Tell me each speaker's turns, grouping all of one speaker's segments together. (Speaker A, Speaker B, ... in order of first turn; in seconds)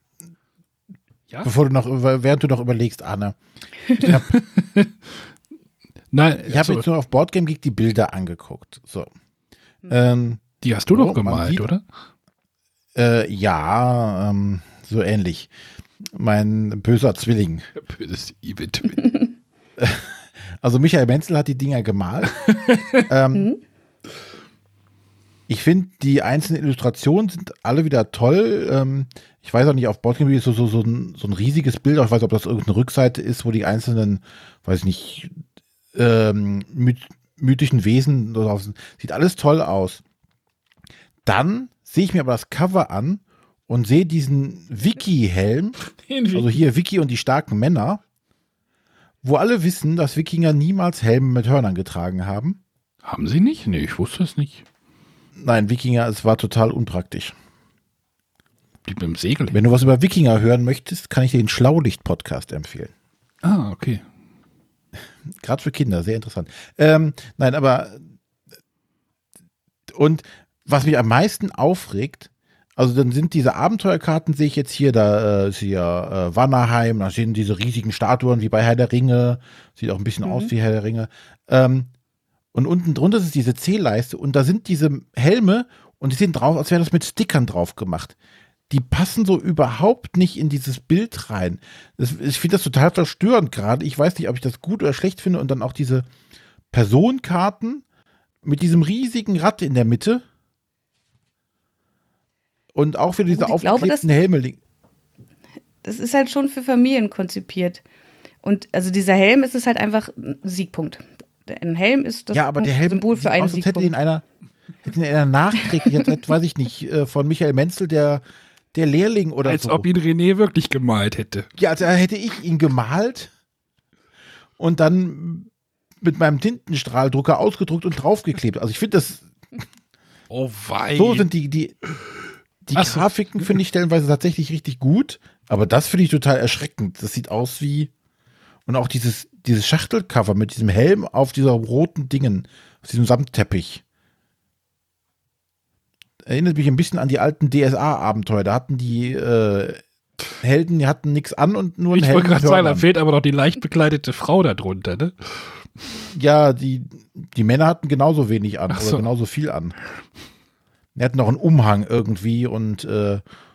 Speaker A: 1.4-3.4, 3.9-4.3, 6.5-9.1, 9.9-11.7, 12.9-15.5, 16.1-17.7, 19.8-20.1, 20.6-22.4, 23.1-23.5, 25.5-35.4, 35.9-40.0, 41.2-45.8, 46.3-48.0, 49.2-52.6, 55.4-57.4, 59.5-62.9, 65.4-68.1, 69.9-81.9, 82.5-88.2, 88.7-96.1, 96.7-97.8, 98.4-100.2, 102.7-104.6, 112.3-114.2, 114.8-118.2, 118.7-119.9, 121.6-123.3, 124.6-125.5, 126.0-129.3, 131.0-131.8, 132.6-137.9, 138.7-143.8, 146.2-149.8, 150.4-152.8, 156.1-159.8, 160.9-163.2
Speaker B: 4.0-5.0, 6.1-6.9, 10.6-11.8, 17.8-19.2, 22.5-23.1, 46.0-46.5, 53.0-54.6, 58.9-59.6, 63.4-64.0, 119.4-121.5, 130.3-131.3, 132.8-133.1, 151.9-155.6, 158.7-159.1
Speaker C: 23.3-23.6, 80.2-80.5, 103.3-104.1, 105.8-107.8, 108.4-113.9